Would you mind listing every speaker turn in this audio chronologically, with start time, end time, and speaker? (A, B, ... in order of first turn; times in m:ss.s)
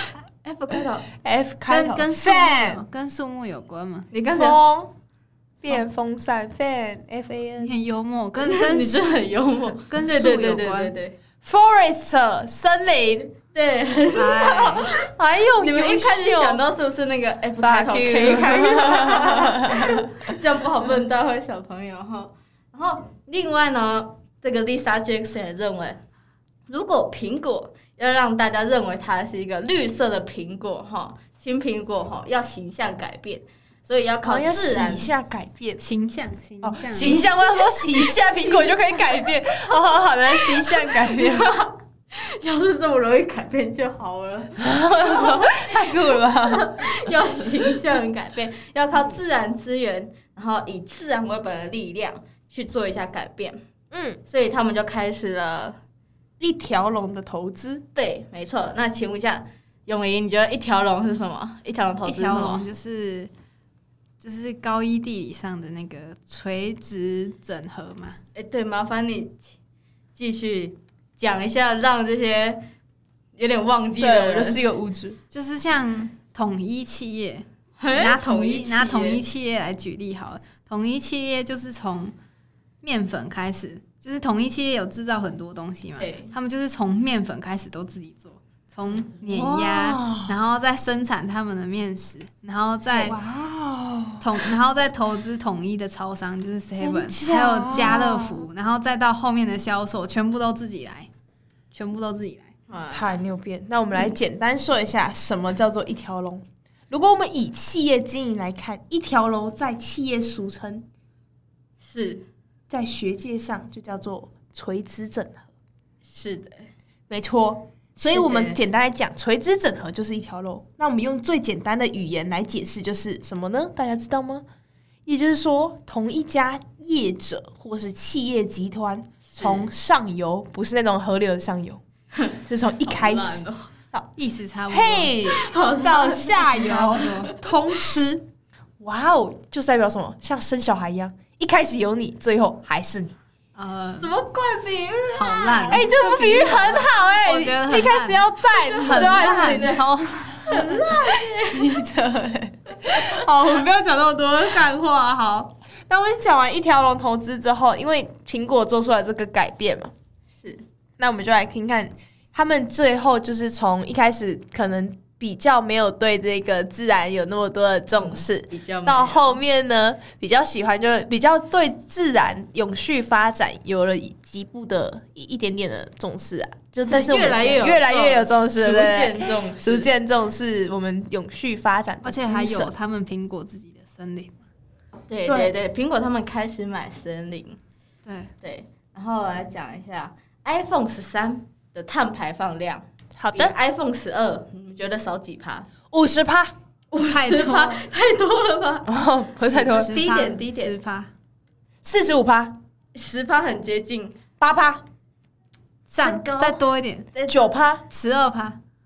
0:00.4-0:01.1 A
0:01.2-0:02.8 B
0:01.7-0:04.1 C
0:04.1-0:04.6 A
0:04.3-0:04.9 B
0:05.6-0:07.7 B
0:07.6-0:09.1 C
0:08.4-0:11.2 A
0:09.9-0:10.9 C
0:11.4-0:13.3 B
0:13.5-0:15.1 A
0:14.2-0:14.9 C
0:15.0-0:16.6 B
0:15.6-0:26.0 A
0:17.6-0:19.9 B
0:26.7-0:35.1 A
0:34.2-0:35.8 B
0:35.8-0:37.3 C
0:36.6-0:41.5 B
0:36.9-0:38.6 A
0:40.6-0:45.8 A
0:44.6-0:46.9 B
0:46.5-0:53.6 A
0:53.9-0:54.2 B
0:54.3-0:55.8 A
0:56.4-0:57.8 B
0:58.0-1:02.7 A
1:02.0-1:03.3 C
1:04.2-1:08.2 C
1:08.4-1:09.6 A
1:10.2-1:12.6 A
1:13.4-1:14.6 A
1:14.0-1:15.2 B
1:15.3-1:22.2 C
1:17.8-1:19.2 A
1:22.8-1:33.2 C
1:26.0-1:26.3 A
1:29.2-1:30.4 B
1:32.9-1:34.5 B
1:34.2-1:41.1 C
1:36.7-1:38.5 B
1:41.7-1:42.5 C
1:42.7-1:43.2 A
1:42.9-1:50.9 B
1:51.8-1:52.3 A
1:52.7-1:55.5 B
1:56.1-1:56.7 A
1:57.1-2:04.4 B
1:58.0-1:58.6 A
2:05.1-2:11.8 B
2:09.4-2:09.7 A
2:12.4-2:14.1 B
2:12.8-2:13.7 A
2:14.2-2:15.2 C
2:14.7-2:18.3 B
2:15.3-2:17.3 A
2:16.4-2:17.3 C
2:18.8-2:23.2 B
2:23.6-2:24.1 C
2:24.0-2:25.8 A
2:25.1-2:30.8 C
2:25.7-2:29.8 B
2:28.7-2:29.9 A
2:30.5-2:31.6 A
2:30.8-2:39.9 B
2:41.0-3:02.7 B
2:48.0-2:49.4 A
2:56.8-2:59.9 A
3:02.0-3:04.4 C
3:05.1-3:07.6 A
3:05.2-3:05.5 B
3:08.0-3:08.3 C
3:08.4-3:15.7 A
3:13.2-3:13.6 B
3:15.9-3:16.5 B
3:16.9-3:18.9 A
3:17.0-3:17.8 C
3:18.9-3:19.9 B
3:19.4-3:21.1 C
3:19.6-3:20.8 A
3:21.8-3:22.6 B
3:23.0-3:24.2 A
3:24.4-3:24.8 B
3:25.9-3:27.1 C
3:26.0-3:27.6 A
3:27.3-3:27.9 B
3:27.9-3:28.6 C